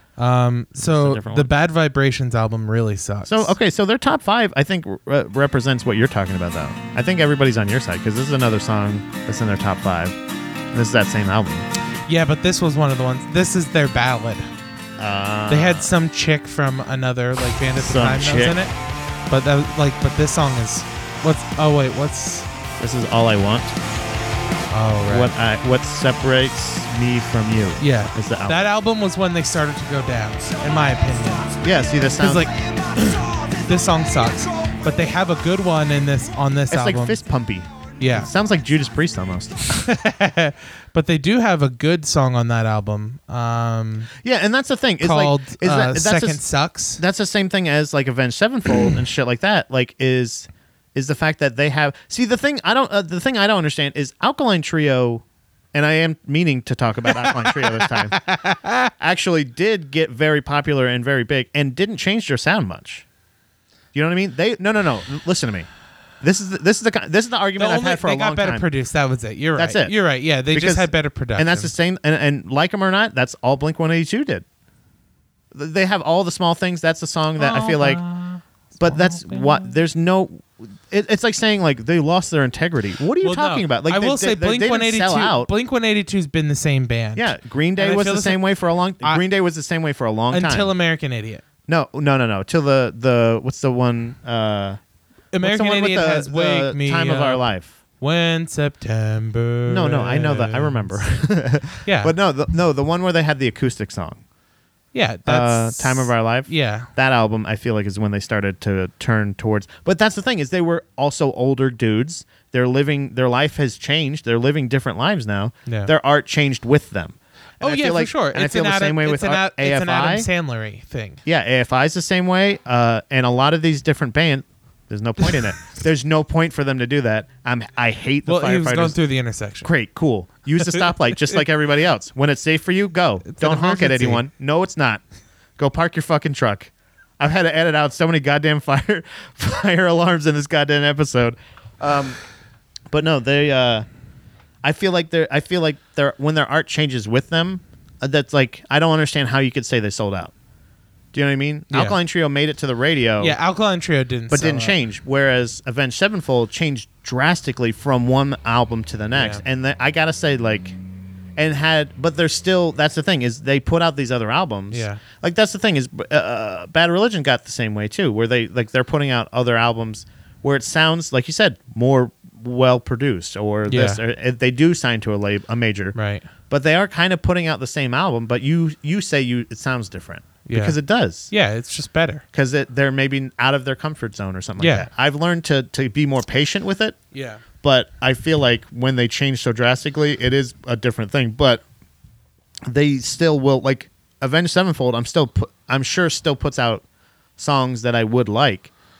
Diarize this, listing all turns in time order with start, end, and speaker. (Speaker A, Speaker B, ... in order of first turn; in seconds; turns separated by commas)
Speaker A: 0.2-3.5, Speaker B: 0.8-1.5, Speaker B: 3.2-10.2, Speaker B: 10.7-11.7, Speaker A: 12.1-14.5, Speaker B: 15.0-15.9, Speaker A: 15.5-18.7, Speaker B: 17.8-18.6, Speaker A: 19.3-22.5, Speaker B: 22.8-23.7, Speaker A: 24.7-25.3, Speaker B: 25.1-28.6, Speaker A: 27.8-31.6, Speaker B: 31.6-32.5, Speaker A: 32.2-37.2, Speaker B: 36.7-39.7, Speaker A: 38.0-38.3, Speaker A: 39.7-44.1, Speaker B: 44.2-46.4, Speaker A: 45.0-47.0, Speaker B: 47.0-58.2, Speaker A: 57.1-58.9, Speaker B: 59.0-63.0, Speaker B: 63.9-65.7, Speaker B: 66.2-68.7, Speaker A: 67.6-71.7, Speaker B: 69.5-70.0, Speaker B: 70.5-74.4, Speaker B: 75.5-78.0, Speaker A: 77.4-79.7, Speaker B: 78.8-85.5, Speaker A: 83.2-88.4, Speaker B: 87.2-90.7, Speaker A: 90.3-91.4, Speaker B: 91.7-94.8, Speaker A: 95.3-97.4, Speaker B: 95.4-97.7, Speaker A: 98.0-101.0, Speaker B: 99.7-104.2, Speaker A: 101.8-102.1, Speaker A: 104.9-106.9, Speaker B: 105.2-120.3, Speaker A: 115.7-115.9, Speaker A: 117.6-121.2, Speaker B: 121.2-129.0, Speaker A: 128.2-129.7, Speaker B: 129.6-135.0, Speaker A: 133.2-134.2, Speaker B: 135.6-142.2, Speaker B: 142.9-143.8, Speaker B: 144.6-150.3, Speaker B: 151.1-153.4, Speaker A: 151.7-152.0, Speaker A: 153.2-154.8, Speaker B: 154.3-160.8, Speaker A: 159.1-159.4, Speaker B: 161.3-175.9, Speaker A: 164.7-165.0, Speaker A: 173.7-174.0, Speaker A: 175.9-176.3, Speaker B: 176.5-181.3, Speaker A: 180.4-180.8, Speaker A: 181.3-182.2, Speaker B: 182.3-187.0, Speaker A: 184.6-184.9, Speaker A: 187.1-187.4, Speaker B: 187.6-191.6, Speaker B: 192.7-196.8, Speaker B: 197.4-198.7